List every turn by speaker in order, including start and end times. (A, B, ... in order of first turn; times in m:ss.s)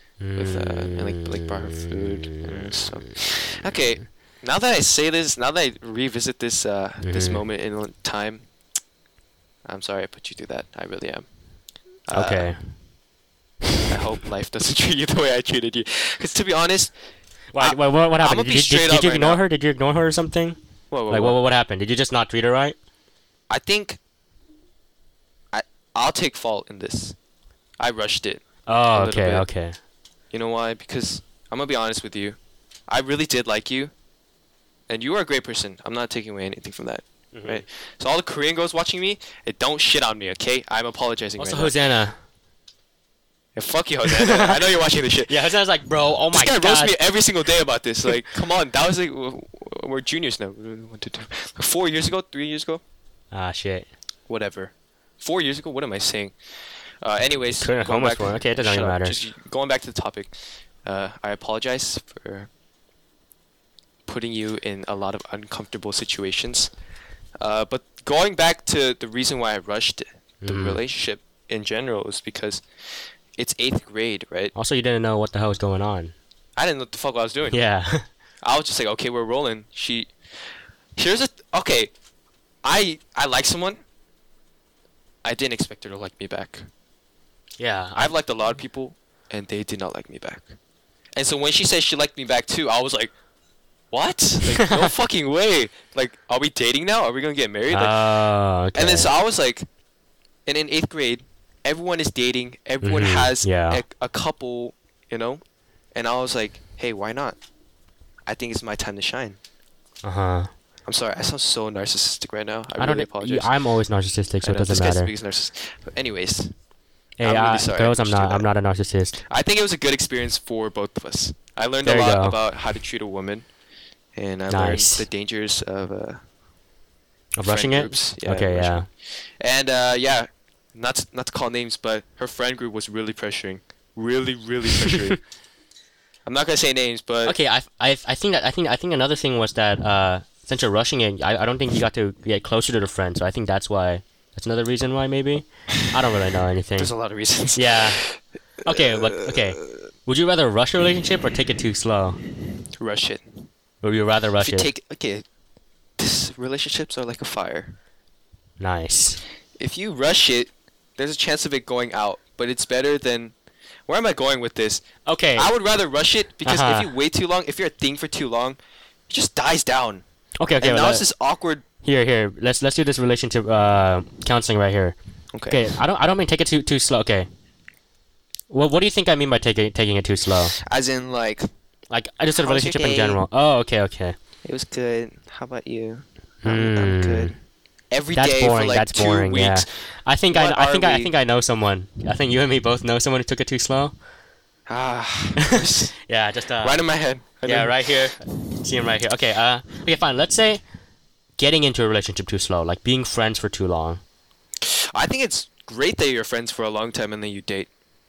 0:00.2-0:03.6 A
0:00.4-0:08.5 B
0:07.0-0:07.4 A
0:09.6-0:11.2 B
0:12.1-0:12.5 B
0:12.1-0:12.6 A
0:13.9-0:16.9 B
0:17.5-0:20.6 A
0:17.6-0:19.4 B
0:20.9-0:21.4 B
0:21.1-0:22.8 A
0:23.5-0:24.0 B
0:25.5-0:27.2 B
0:27.8-0:29.5 B
0:28.7-0:29.8 A
0:30.3-0:33.9 B
0:34.9-0:41.7 B
0:37.3-0:37.6 A
0:41.4-0:42.2 A
0:43.5-0:45.3 B
0:44.0-0:44.6 A
0:45.2-0:47.0 A
0:46.3-0:52.8 B
0:53.3-0:53.9 A
0:54.3-0:56.3 B
0:57.0-1:00.3 B
0:57.6-0:59.2 A
1:00.8-1:02.5 B
1:04.0-1:06.7 B
1:07.4-1:12.6 B
1:10.4-1:10.8 A
1:13.4-1:14.5 B
1:14.5-1:16.1 A
1:16.6-1:17.6 B
1:17.5-1:18.0 A
1:18.4-1:20.1 B
1:21.0-1:21.9 B
1:22.6-1:23.8 B
1:25.2-1:26.7 B
1:27.6-1:28.1 A
1:28.0-1:30.5 B
1:31.2-1:33.1 B
1:33.9-1:38.0 B
1:34.4-1:34.9 A
1:37.7-1:39.1 A
1:38.7-1:39.6 B
1:40.4-1:45.4 B
1:42.8-1:43.8 A
1:45.9-1:47.4 B
1:48.3-1:49.4 B
1:50.0-1:50.5 A
1:50.8-1:53.5 B
1:52.8-1:55.1 A
1:54.4-1:56.5 B
1:57.2-1:59.2 A
1:57.2-1:58.5 B
1:59.3-2:03.4 B
2:01.8-2:02.4 A
2:04.2-2:06.2 B
2:04.5-2:05.0 A
2:07.4-2:08.9 A
2:07.4-2:15.2 B
2:16.2-2:17.4 B
2:17.2-2:26.9 A
2:26.8-2:29.6 B
2:27.5-2:28.0 A
2:28.6-2:32.2 A
2:32.8-2:33.4 B
2:33.8-2:34.7 A
2:34.4-2:35.2 B
2:36.0-2:37.7 B
2:38.6-2:39.2 A
2:39.6-2:43.3 B
2:43.9-2:44.8 B
2:45.0-2:45.5 A
2:45.4-2:48.6 B
2:46.4-2:46.9 A
2:49.1-2:50.0 B
2:50.4-2:51.0 A
2:50.6-2:51.6 B
2:51.8-2:55.0 A
2:55.3-2:55.8 B
2:55.5-2:57.3 A
2:58.5-3:00.5 A
3:00.6-3:01.5 B
3:01.9-3:04.2 A
3:02.4-3:03.2 B
3:04.4-3:07.3 B
3:06.4-3:07.3 A
3:07.9-3:09.7 B
3:08.1-3:13.9 A
3:10.3-3:11.1 B
3:14.7-3:15.9 B
3:15.4-3:16.8 A
3:16.6-3:17.7 B
3:17.4-3:20.6 A
3:21.4-3:24.0 A
3:24.6-3:27.7 B